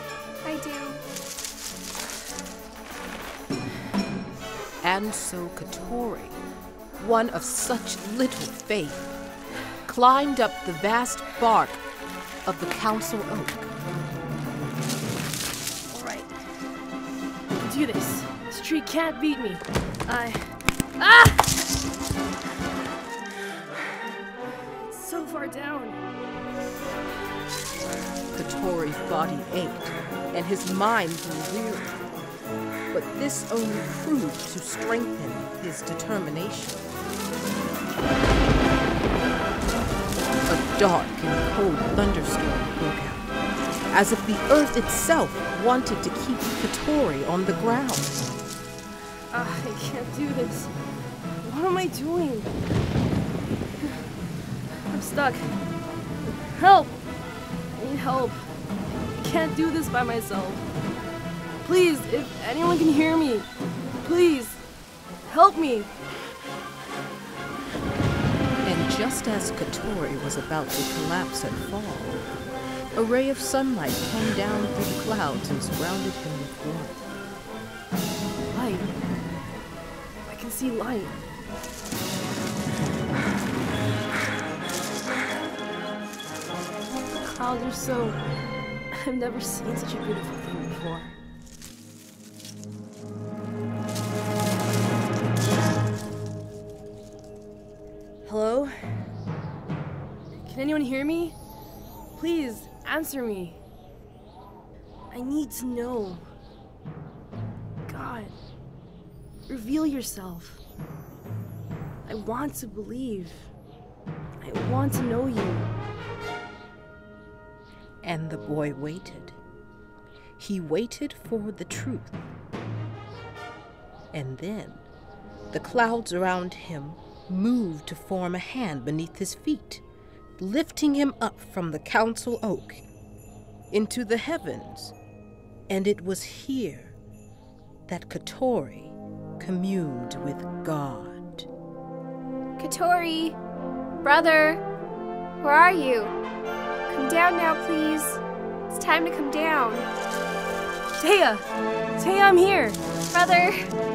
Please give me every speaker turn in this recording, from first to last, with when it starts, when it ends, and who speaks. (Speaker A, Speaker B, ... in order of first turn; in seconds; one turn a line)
Speaker A: 0.4-1.0
Speaker B: 4.8-6.4
Speaker B: 7.0-9.1
Speaker B: 9.9-11.8
Speaker B: 12.5-13.7
Speaker C: 15.9-16.4
Speaker C: 17.6-21.5
Speaker C: 24.8-26.0
Speaker B: 28.3-32.0
Speaker B: 32.9-36.8
Speaker B: 40.5-43.4
Speaker B: 43.9-48.2
Speaker C: 49.3-50.7
Speaker C: 51.4-52.5
Speaker C: 54.9-55.6
Speaker C: 56.5-57.0
Speaker C: 57.7-58.5
Speaker C: 59.1-60.7
Speaker C: 61.6-63.5
Speaker C: 64.0-64.6
Speaker C: 65.3-65.9
Speaker B: 68.6-72.2
Speaker B: 73.0-77.0
Speaker C: 78.5-78.9
Speaker C: 80.2-81.2
Speaker C: 87.1-88.2
Speaker C: 88.9-91.2
Speaker C: 98.2-99.0
Speaker C: 100.4-101.4
Speaker C: 102.1-103.6
Speaker C: 105.1-106.2
Speaker C: 107.8-108.3
Speaker C: 109.5-110.6
Speaker C: 112.0-113.5
Speaker C: 114.4-115.7
Speaker B: 118.0-119.4
Speaker B: 120.4-122.2
Speaker B: 124.1-124.8
Speaker B: 125.5-129.8
Speaker B: 130.4-132.8
Speaker B: 133.7-134.9
Speaker B: 135.7-137.0
Speaker B: 137.9-141.5
Speaker A: 142.6-143.4
Speaker A: 144.0-144.6
Speaker A: 145.4-146.2
Speaker A: 146.9-149.9
Speaker C: 151.0-152.8
Speaker A: 153.1-153.7